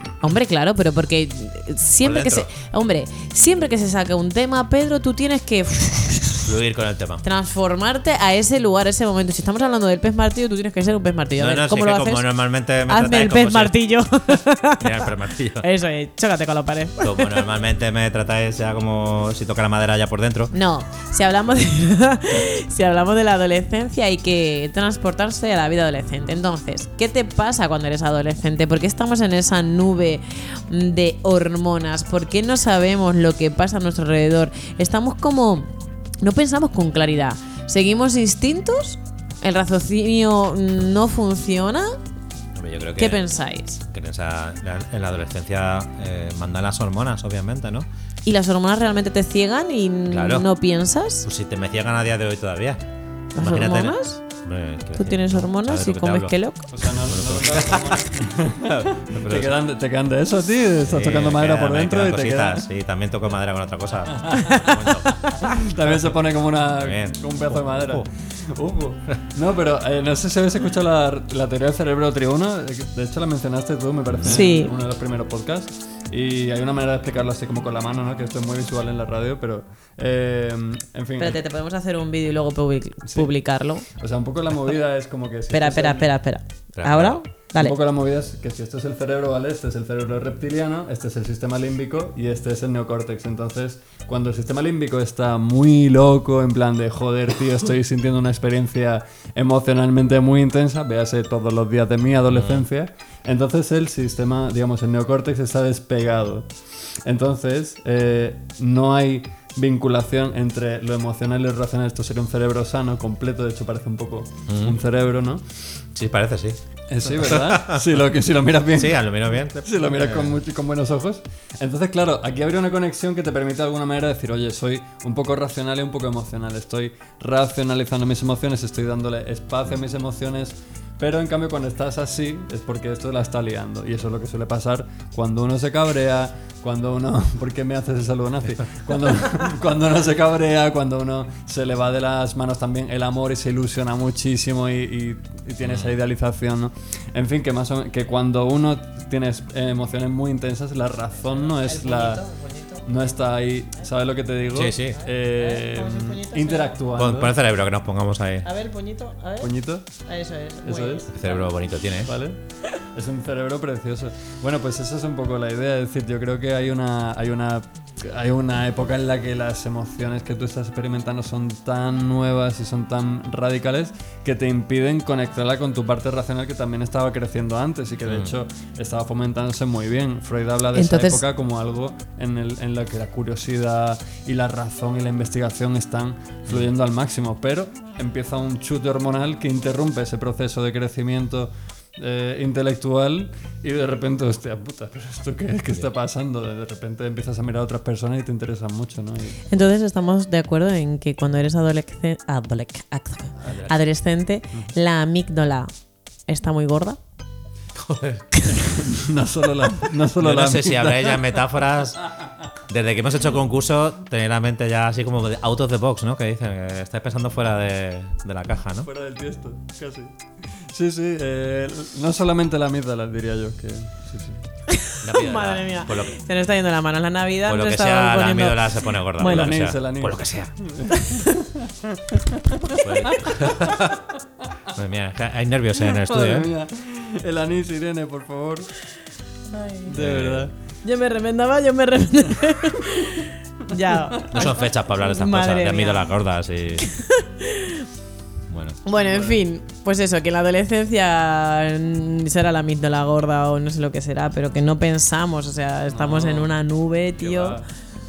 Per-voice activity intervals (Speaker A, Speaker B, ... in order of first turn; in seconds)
Speaker A: 0.2-6.5, 7.2-12.3, 12.9-17.4, 20.5-42.0, 43.0-43.8, 48.2-51.3, 53.3-54.2, 55.0-56.7, 74.2-74.7, 81.2-83.8, 85.5-87.8, 151.4-152.9, 154.9-156.8, 158.4-161.5, 180.7-181.2, 199.5-205.7, 206.3-207.0, 208.4-208.7, 224.7-229.5, 230.9-231.3, 239.5-239.9, 240.8-246.1, 246.8-247.8, 248.8-257.6
Speaker B: 2.0-2.5, 6.4-7.2, 11.4-13.7, 14.8-15.7, 17.0-20.5, 42.5-43.2, 43.8-47.9, 50.1-50.5, 51.2-52.8, 53.4-56.4, 57.0-58.1, 58.6-59.5, 60.9-65.2, 66.7-68.1, 74.1-74.4, 86.7-87.2, 102.3-102.7, 114.5-114.8, 115.9-116.6, 117.1-117.8, 118.7-120.4, 145.6-146.0, 154.5-155.0, 156.9-158.5, 161.1-162.1, 178.1-178.3, 203.4-203.8, 207.7-208.5, 210.2-218.9, 225.0-226.2, 227.4-230.5, 232.8-234.1, 234.7-236.5, 239.9-240.5, 244.3-246.9, 248.5-248.8
Speaker C: 56.7-62.7, 64.2-64.8, 65.3-81.4, 84.0-86.1, 87.6-106.5, 107.0-115.4, 116.9-119.0, 119.6-152.2, 152.8-157.3, 159.4-159.9, 160.6-161.1, 162.0-199.4, 208.8-211.2, 218.8-224.4, 229.2-233.8, 235.8-238.8, 239.9-240.5, 248.9-249.4, 255.9-256.5, 257.2-257.6